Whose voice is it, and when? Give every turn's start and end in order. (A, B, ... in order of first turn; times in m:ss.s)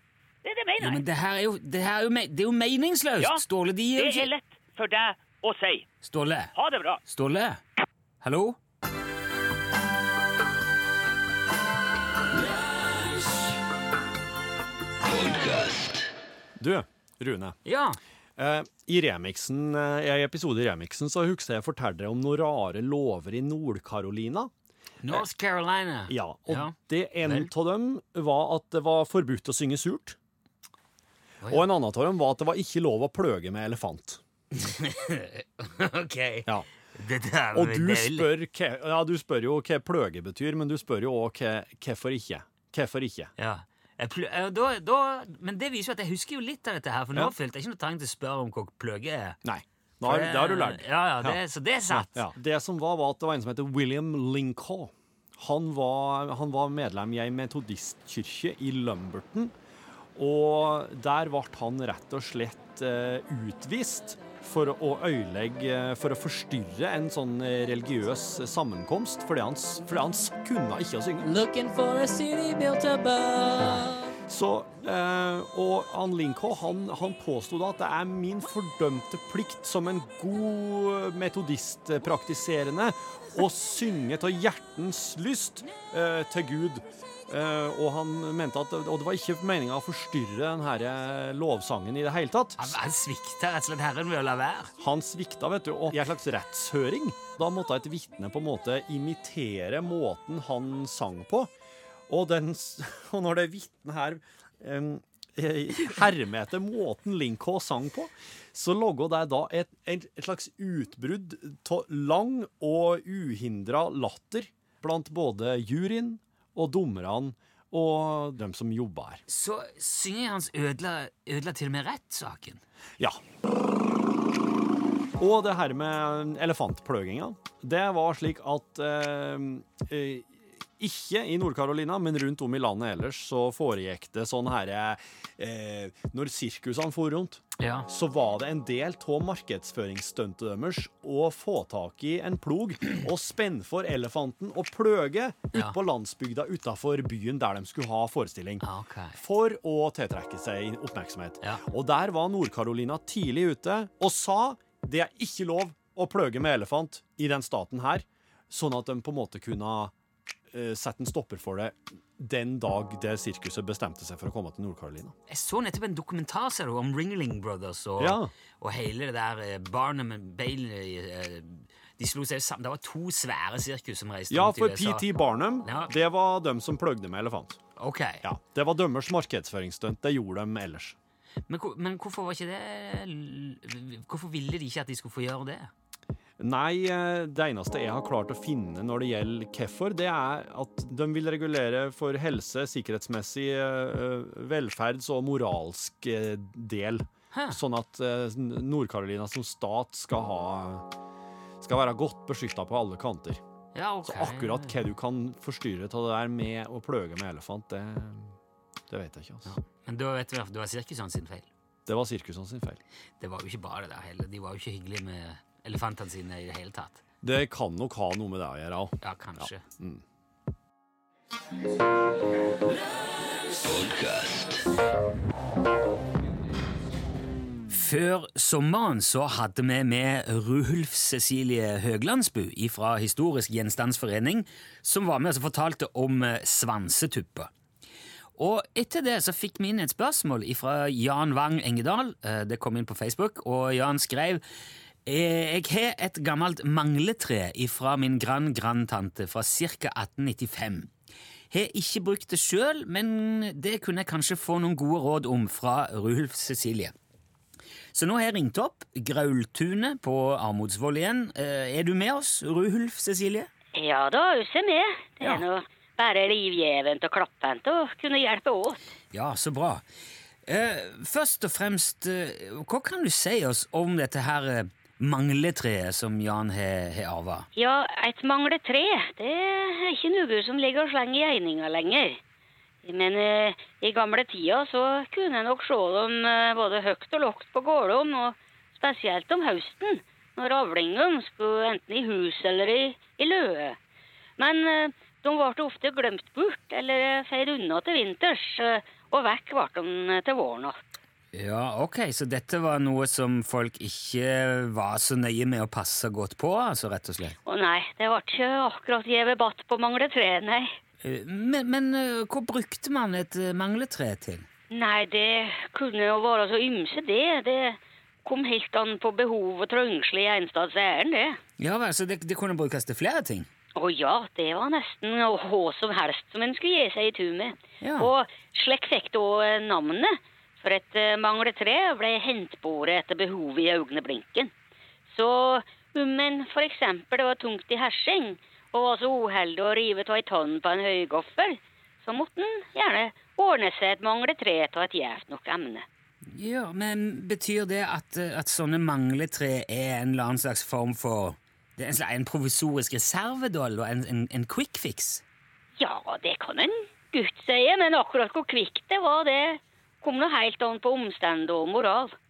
0:00.4-0:01.0 A
0:00.8-0:04.3 B
0:04.0-0:05.9 A
0:06.0-0:06.5 B
0:06.5-0:07.0 A
0:07.1-0:07.6 B
0:08.2-0:08.6 B
0:16.6-0:17.6 C
0:17.6-0:18.0 B
0:18.4-0:24.5 C
0:25.0-0:27.5 B
0:26.1-0:30.2 C
0:31.5-0:34.2 C
0:34.5-0:38.3 B
0:37.5-0:43.3 C
0:43.4-0:49.4 B
0:49.4-0:59.5 C
0:50.0-0:52.2 B
1:00.2-1:11.4 C
1:11.2-1:14.1 D
1:14.3-1:32.8 C
1:32.6-1:34.7 B
1:34.8-1:41.5 C
1:42.1-1:59.2 C
1:59.3-2:02.6 B
2:05.2-2:39.9 C
2:17.6-2:17.9 B
2:28.6-2:29.2 B
2:40.5-2:45.1 C
2:45.3-2:55.1 B
2:48.0-2:48.3 C
2:54.3-2:57.6 C
2:55.6-2:55.9 B
2:57.8-2:58.2 B
2:58.2-3:01.0 C
3:01.5-3:05.7 B
3:06.4-3:20.9 C
3:17.3-3:17.6 B
3:21.6-3:23.4 C
3:23.7-3:24.8 B
3:24.0-3:28.4 C
3:28.9-3:29.5 C
3:29.4-3:31.5 B
3:31.8-3:32.8 C
3:33.2-3:37.0 B
3:37.2-3:40.0 C
3:39.0-3:39.6 B
3:47.7-3:57.5 B
3:58.4-4:04.4 B
4:05.0-4:10.9 B
4:11.5-4:16.9 B
4:17.9-4:23.5 B
4:23.7-4:28.8 E
4:29.1-4:29.8 B
4:30.5-4:37.4 B
4:37.5-4:42.2 E
4:42.8-4:53.8 E
4:54.4-5:00.8 E
5:01.3-5:07.4 B
5:07.4-5:10.8 E
5:11.0-5:14.4 B
5:14.7-5:21.4 E
5:21.6-5:23.5 B
5:23.8-5:34.5 E
5:27.8-5:28.1 B
5:35.1-5:45.8 E
5:46.3-5:55.2 B
5:55.8-6:02.2 E